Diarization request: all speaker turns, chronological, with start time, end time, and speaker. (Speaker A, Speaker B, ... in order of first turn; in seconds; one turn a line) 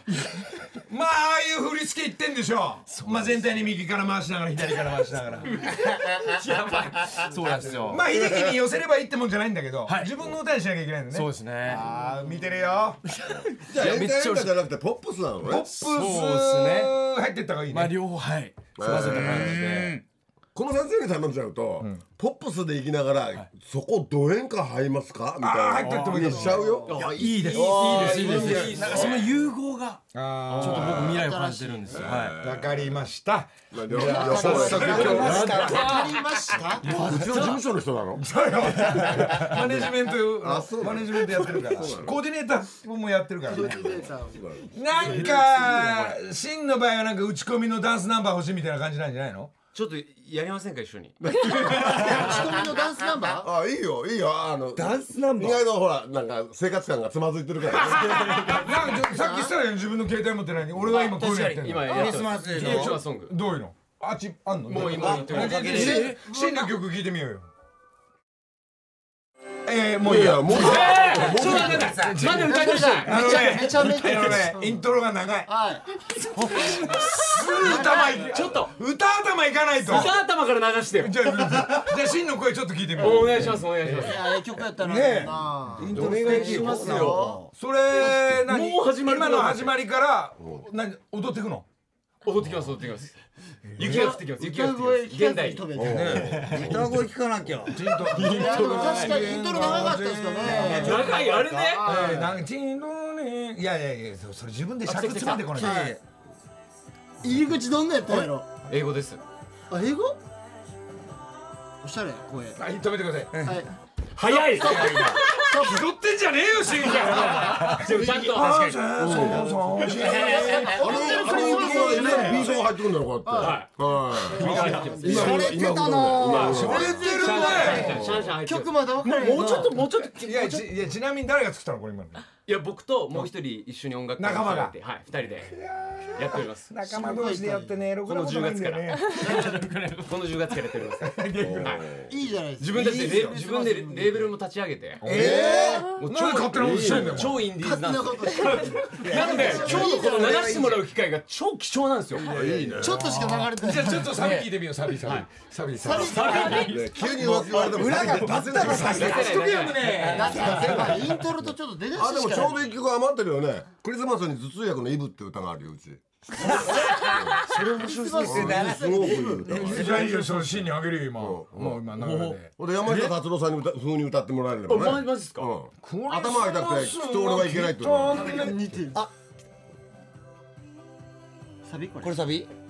Speaker A: 0.8-5.6
Speaker B: 2.9-3.7
Speaker C: 6.4-7.6
Speaker B: 6.4-8.2
Speaker A: 7.8-13.0
Speaker B: 9.8-10.2
Speaker B: 11.1-11.9
Speaker B: 13.1-14.6
Speaker D: 13.7-15.7
Speaker A: 15.4-18.0
Speaker B: 15.7-17.0
Speaker B: 17.7-20.0
Speaker D: 18.8-19.6
Speaker E: 18.9-20.0
Speaker D: 20.5-27.5
Speaker A: 25.4-26.7
Speaker B: 25.8-32.4
Speaker F: 26.5-26.9
Speaker C: 26.9-29.4
Speaker E: 27.5-28.8
Speaker D: 28.8-29.2
Speaker A: 30.1-31.2
Speaker C: 30.6-30.8
Speaker F: 30.6-32.2
Speaker D: 30.7-31.1
Speaker D: 31.9-33.0
Speaker A: 32.4-35.8
Speaker D: 33.7-35.7
Speaker F: 34.0-37.0
Speaker E: 34.5-35.7
Speaker C: 34.6-37.6
Speaker B: 34.6-35.0
Speaker B: 36.8-37.6
Speaker D: 36.8-38.2
Speaker A: 38.2-43.8
Speaker D: 39.5-42.2
Speaker F: 43.5-44.4
Speaker D: 43.6-45.3
Speaker A: 44.7-49.5
Speaker B: 45.0-46.1
Speaker C: 49.7-51.2
Speaker D: 51.2-52.4
Speaker F: 51.5-53.5
Speaker D: 53.4-58.7
Speaker E: 54.7-55.6
Speaker C: 57.9-58.4
Speaker A: 57.9-67.5
Speaker F: 59.1-59.5
Speaker E: 60.8-63.0
Speaker C: 61.5-63.4
Speaker C: 64.7-66.0
Speaker E: 64.8-66.0
Speaker B: 65.4-66.2
Speaker F: 65.8-66.7
Speaker A: 69.6-75.5
Speaker D: 70.0-72.0
Speaker C: 70.5-73.6
Speaker E: 71.4-72.2
Speaker F: 72.2-74.8
Speaker F: 75.5-75.8
Speaker A: 76.1-80.2
Speaker E: 76.5-76.8
Speaker F: 77.5-78.3
Speaker C: 78.0-78.8
Speaker C: 79.8-81.6
Speaker A: 81.0-84.2
Speaker C: 83.0-84.3
Speaker F: 84.0-87.5
Speaker A: 84.8-91.7
Speaker E: 85.8-87.5
Speaker D: 85.9-87.2
Speaker C: 87.9-89.7
Speaker D: 90.4-90.7
Speaker C: 92.2-93.1
Speaker A: 93.7-94.2
Speaker C: 93.8-95.7
Speaker F: 93.8-96.6
Speaker D: 95.7-97.1
Speaker E: 95.9-98.1
Speaker A: 97.7-101.2
Speaker C: 98.0-99.2
Speaker F: 98.1-102.4
Speaker E: 100.4-101.5
Speaker C: 100.5-102.2
Speaker A: 101.8-105.9
Speaker C: 104.8-105.6
Speaker F: 105.5-106.0
Speaker E: 105.6-106.0
Speaker F: 107.2-108.5
Speaker C: 108.7-109.2
Speaker F: 109.7-110.2
Speaker F: 111.8-112.6
Speaker A: 112.5-113.5
Speaker E: 113.3-113.6
Speaker F: 113.4-113.7
Speaker C: 114.1-115.3
Speaker F: 114.3-115.9
Speaker E: 114.7-115.1
Speaker A: 114.7-122.5
Speaker C: 116.7-119.3
Speaker F: 116.9-117.8
Speaker E: 118.3-118.8
Speaker D: 118.9-119.5
Speaker F: 119.3-122.6
Speaker C: 119.8-120.8
Speaker D: 120.7-127.2
Speaker F: 123.2-123.7
Speaker C: 123.4-125.5
Speaker F: 124.3-129.8
Speaker A: 124.4-125.2
Speaker E: 125.1-126.4
Speaker C: 126.1-130.7
Speaker A: 126.4-128.0
Speaker D: 127.8-128.4
Speaker A: 129.3-132.2
Speaker C: 132.4-135.6
Speaker A: 134.2-134.7
Speaker A: 135.4-139.2
Speaker C: 136.1-136.7
Speaker F: 136.8-137.7
Speaker C: 138.0-141.9
Speaker B: 139.2-140.0
Speaker A: 141.0-141.8
Speaker D: 141.4-142.1
Speaker F: 142.1-144.3
Speaker C: 142.6-145.0
Speaker A: 145.0-147.4
Speaker E: 145.0-145.9
Speaker D: 145.1-147.4
Speaker F: 145.1-145.9
Speaker C: 146.0-152.3
Speaker F: 147.4-150.8
Speaker E: 149.0-150.0
Speaker D: 152.2-153.1
Speaker A: 152.4-156.6
Speaker F: 152.8-154.4
Speaker B: 154.2-154.5
Speaker C: 155.0-155.3
Speaker F: 155.8-156.8
Speaker C: 155.9-156.9
Speaker D: 156.6-159.3
Speaker E: 157.0-159.3
Speaker A: 157.9-161.1
Speaker C: 158.7-160.7
Speaker F: 160.1-162.7
Speaker D: 161.9-166.0
Speaker E: 166.4-170.3
Speaker F: 166.4-170.1
Speaker C: 167.3-168.5
Speaker D: 168.2-170.2
Speaker A: 169.5-172.5
Speaker D: 171.2-178.3
Speaker C: 174.7-175.5
Speaker A: 175.8-178.6
Speaker F: 178.1-179.0
Speaker F: 181.6-182.2
Speaker E: 182.0-182.5